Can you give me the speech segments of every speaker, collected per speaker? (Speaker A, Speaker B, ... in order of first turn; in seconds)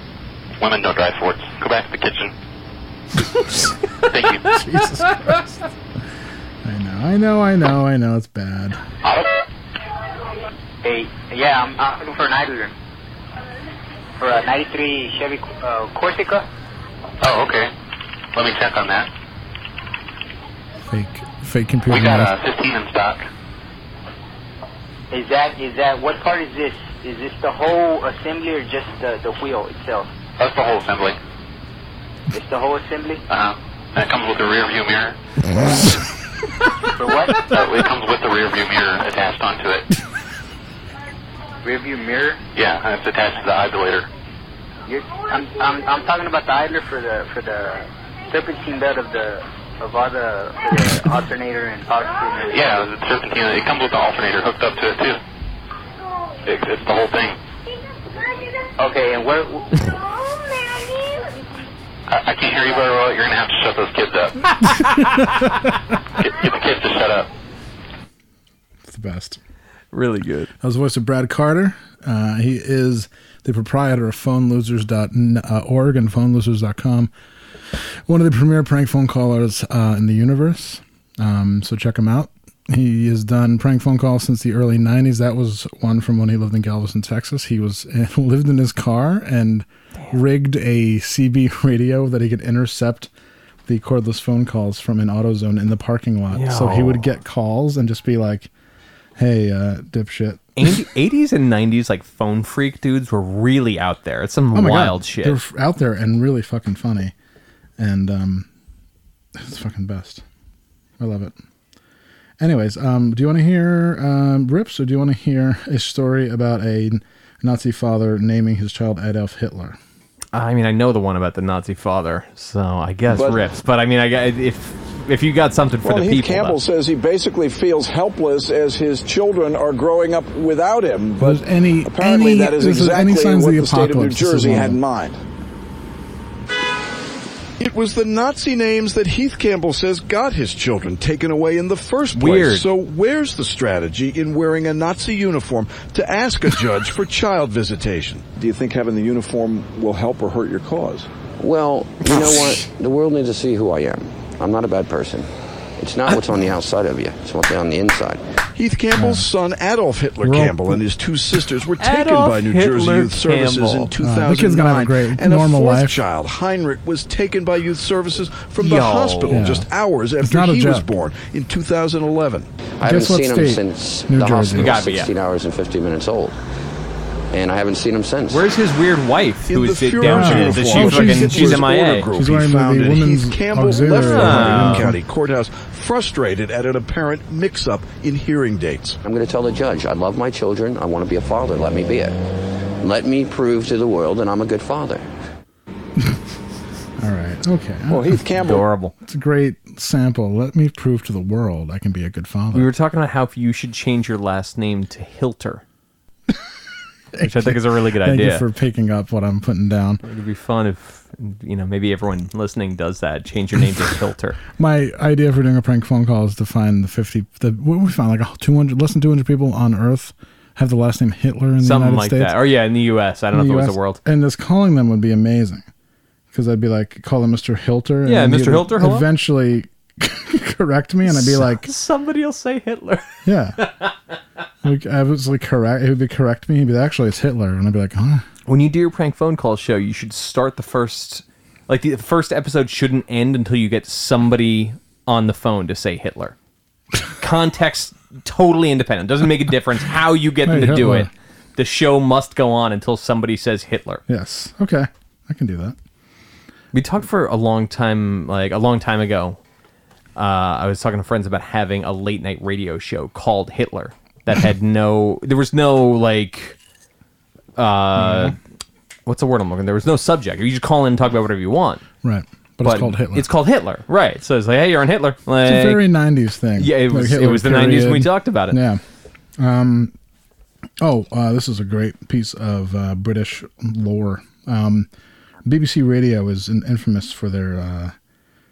Speaker A: 0.6-2.3, 4.1-4.5, 9.0-9.3, 17.2-17.7, 18.3-19.1, 21.9-23.2, 30.4-31.2, 33.3-35.1, 37.5-39.9, 42.5-44.1, 52.5-55.2, 56.4-57.4, 62.1-64.5, 66.2-67.3
Speaker B: 4.5-5.6, 6.6-8.8, 20.9-22.3, 68.8-69.4, 70.6-77.1, 77.7-93.1, 93.7-98.5, 99.2-100.7, 104.5-107.1, 107.8-108.5, 109.3-110.2, 111.0-111.3, 112.4-119.8, 131.2-134.8, 158.9-159.3, 160.2-160.8, 164.0-166.0, 169.3-169.7, 170.2-170.9, 172.8-174.8, 180.0-185.0, 197.0-198.2, 199.0-202.7, 207.1-210.0, 214.5-222.3, 223.3-225.7, 226.3-231.7, 233.2-233.6, 234.6-238.2, 250.4-251.1, 254.1-255.8, 267.9-268.4, 272.0-273.3, 275.4-278.8, 279.4-279.9, 280.8-284.9, 285.4-287.9
Speaker C: 10.8-12.7, 14.2-16.4, 25.1-30.1, 32.3-33.2, 37.0-37.4, 41.6-42.4, 44.9-52.8, 58.8-59.8
Speaker D: 69.9-70.5, 96.3-97.0, 100.6-105.4, 120.3-126.6, 142.1-142.7, 161.8-163.9, 168.6-169.4, 174.5-175.1, 178.3-182.1, 183.9-184.9, 198.4-198.9, 202.5-205.6, 207.2-208.4, 210.0-214.4, 221.6-224.0, 228.0-229.1, 231.1-233.9, 238.4-246.3, 247.2-254.0, 256.7-259.4, 260.1-266.6, 267.6-268.4, 269.1-271.8, 272.6-275.9, 276.6-278.6
Speaker E: 123.1-123.4, 125.8-135.2, 137.6-151.1, 158.5-172.5, 179.5-189.0, 197.9-198.7
Speaker F: 151.4-158.2, 172.8-176.4, 177.3-178.4, 189.0-192.2, 192.8-195.1